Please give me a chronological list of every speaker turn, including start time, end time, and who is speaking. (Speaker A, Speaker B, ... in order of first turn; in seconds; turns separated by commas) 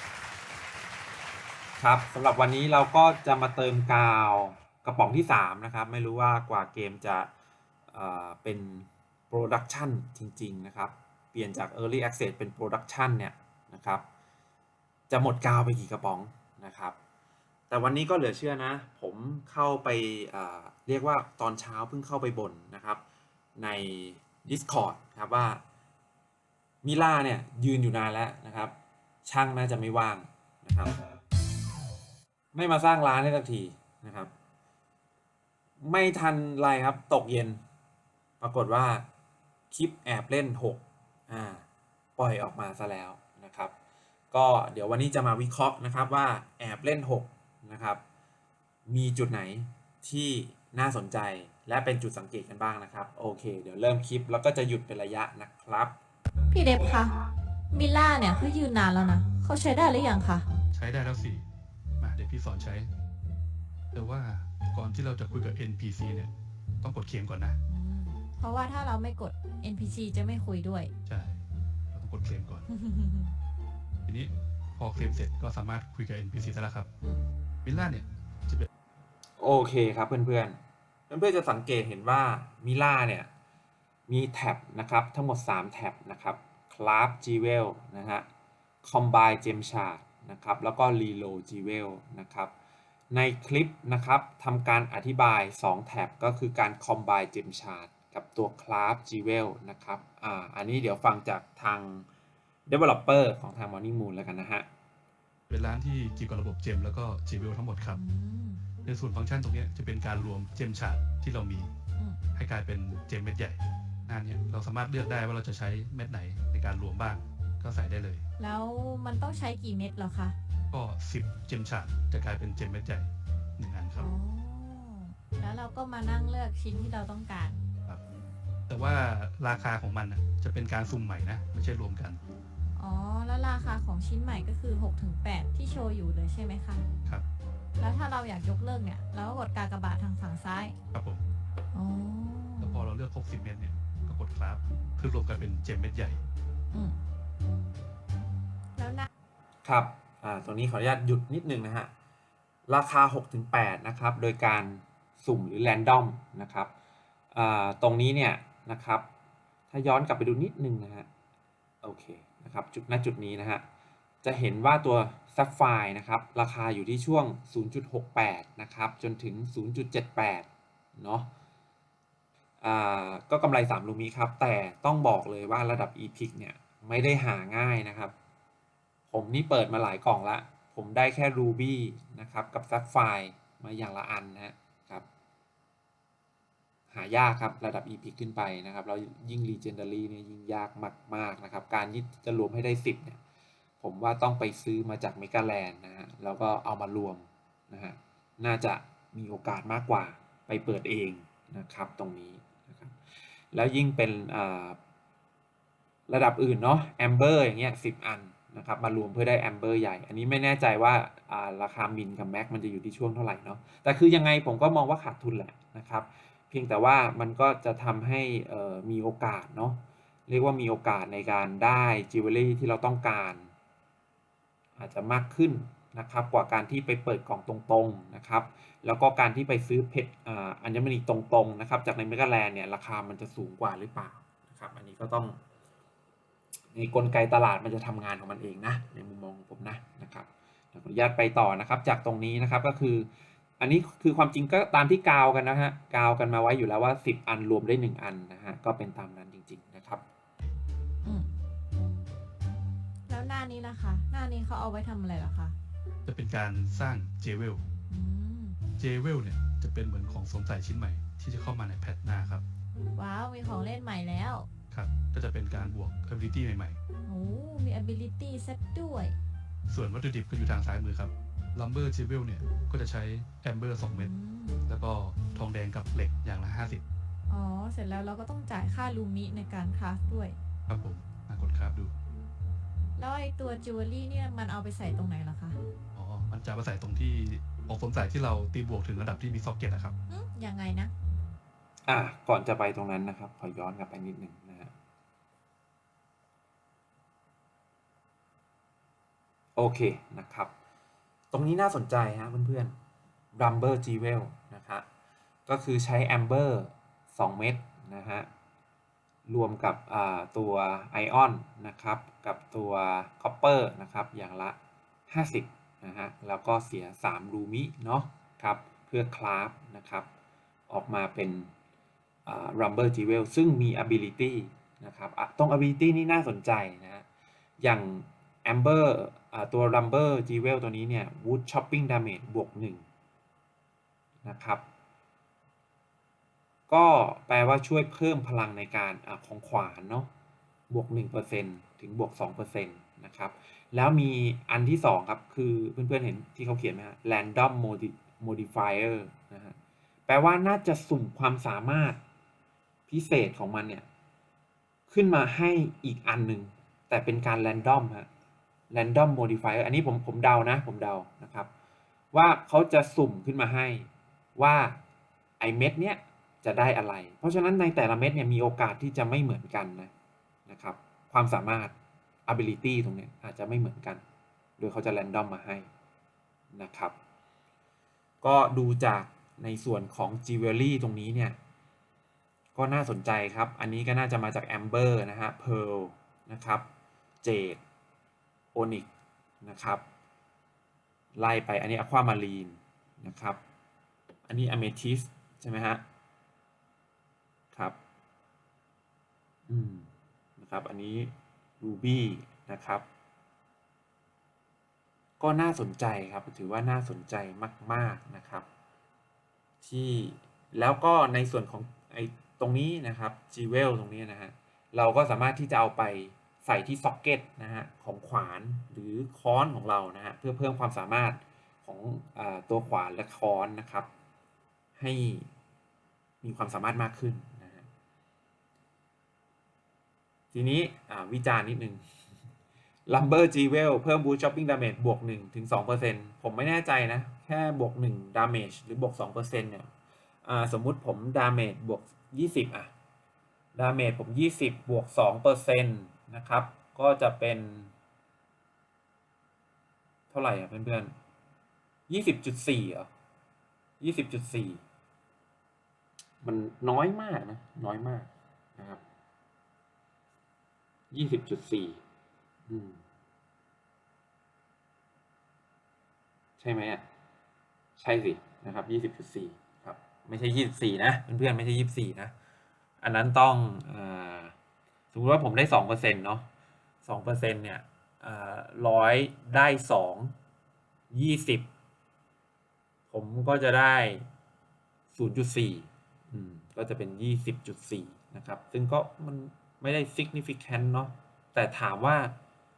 Speaker A: 1.8-7.3, Speaker A: 7.9-14.0, Speaker A: 15.1-17.0, Speaker A: 17.7-23.0, Speaker A: 23.6-25.6, Speaker A: 26.8-28.7, Speaker A: 29.2-31.0, Speaker A: 32.5-34.3, Speaker A: 35.8-37.6, Speaker A: 38.4-39.1, Speaker A: 39.7-41.6, Speaker A: 42.2-43.7, Speaker A: 44.3-48.0, Speaker A: 48.9-56.0, Speaker B: 56.5-57.1, Speaker B: 57.7-60.4, Speaker C: 60.7-61.5, Speaker C: 62.0-62.9, Speaker C: 63.9-67.6, Speaker B: 67.7-70.9, Speaker C: 71.1-71.4, Speaker C: 71.9-72.7, Speaker B: 72.7-73.3, Speaker C: 74.1-76.9, Speaker C: 77.6-78.7, Speaker A: 79.4-80.6, Speaker A: 81.1-83.3, Speaker A: 84.1-88.3, Speaker A: 88.8-92.5, Speaker A: 93.1-102.1, Speaker A: 102.7-104.7, Speaker C: 105.5-108.0, Speaker B: 107.9-108.6, Speaker C: 108.8-111.7, Speaker C: 112.3-118.3, Speaker B: 118.4-120.3, Speaker C: 120.7-124.1, Speaker B: 124.0-127.6, Speaker C: 128.7-132.2, Speaker B: 132.8-136.8, Speaker B: 137.8-140.8, Speaker C: 140.9-141.2, Speaker B: 141.7-142.9, Speaker C: 142.6-146.2, Speaker B: 146.7-147.0, Speaker B: 148.8-149.1, Speaker A: 149.6-151.9, Speaker A: 152.7-156.7, Speaker A: 157.3-159.1, Speaker A: 159.7-161.1, Speaker A: 161.8-163.7, Speaker A: 164.2-171.3, Speaker A: 172.6-178.1, Speaker A: 179.1-185.1, Speaker A: 186.9-193.2, Speaker A: 193.8-203.0, Speaker A: 203.5-204.8, Speaker A: 206.1-223.5, Speaker A: 224.8-235.4, Speaker A: 236.7-250.0, Speaker B: 253.1-255.6, Speaker C: 256.1-257.6, Speaker B: 257.9-258.6, Speaker C: 258.8-262.4, Speaker B: 262.9-264.5, Speaker C: 264.7-266.8, Speaker B: 267.1-269.2, Speaker C: 269.7-274.1, Speaker B: 273.9-274.6, Speaker C: 274.7-276.8, Speaker B: 277.3-280.4, Speaker C: 280.7-281.9, Speaker B: 283.0-285.6, Speaker C: 285.9-289.9, Speaker B: 290.1-290.9, Speaker A: 291.9-294.7, Speaker A: 299.6-300.5, Speaker A: 301.3-302.8, Speaker A: 303.4-304.9, Speaker A: 305.5-308.3, Speaker A: 309.3-314.6, Speaker A: 315.1-320.1, Speaker A: 320.7-321.5, Speaker A: 322.3-327.1, Speaker A: 327.6-332.8, Speaker A: 334.2-334.6, Speaker A: 336.7-340.1, Speaker A: 340.7-349.6, Speaker A: 350.1-352.0, Speaker A: 352.9-353.9, Speaker A: 354.9-358.1, Speaker A: 358.7-361.5, Speaker A: 362.1-364.8, Speaker A: 365.4-369.9, Speaker A: 370.5-371.7, Speaker A: 372.3-374.0, Speaker A: 374.6-375.7, Speaker A: 376.5-376.9, Speaker A: 378.2-381.4, Speaker A: 382.6-386.7, Speaker A: 387.2-387.6, Speaker A: 388.5-388.9, Speaker A: 389.4-389.8, Speaker A: 391.2-393.4, Speaker A: 394.3-395.8, Speaker A: 399.5-402.9, Speaker A: 405.2-408.4, Speaker A: 409.6-423.9, Speaker A: 424.8-425.3, Speaker A: 426.2-427.7, Speaker A: 430.3-431.8, Speaker A: 432.9-439.7, Speaker A: 440.2-442.7, Speaker A: 443.6-447.7, Speaker A: 450.1-450.9, Speaker A: 451.9-452.9, Speaker A: 453.8-454.6, Speaker A: 456.2-458.8, Speaker A: 460.9-461.8, Speaker A: 462.5-462.8, Speaker A: 466.4-466.8, Speaker A: 467.8-472.1, Speaker A: 472.8-474.3, Speaker A: 474.9-476.3, Speaker A: 476.8-480.1, Speaker A: 480.9-481.5, Speaker A: 482.9-484.1, Speaker A: 484.9-492.1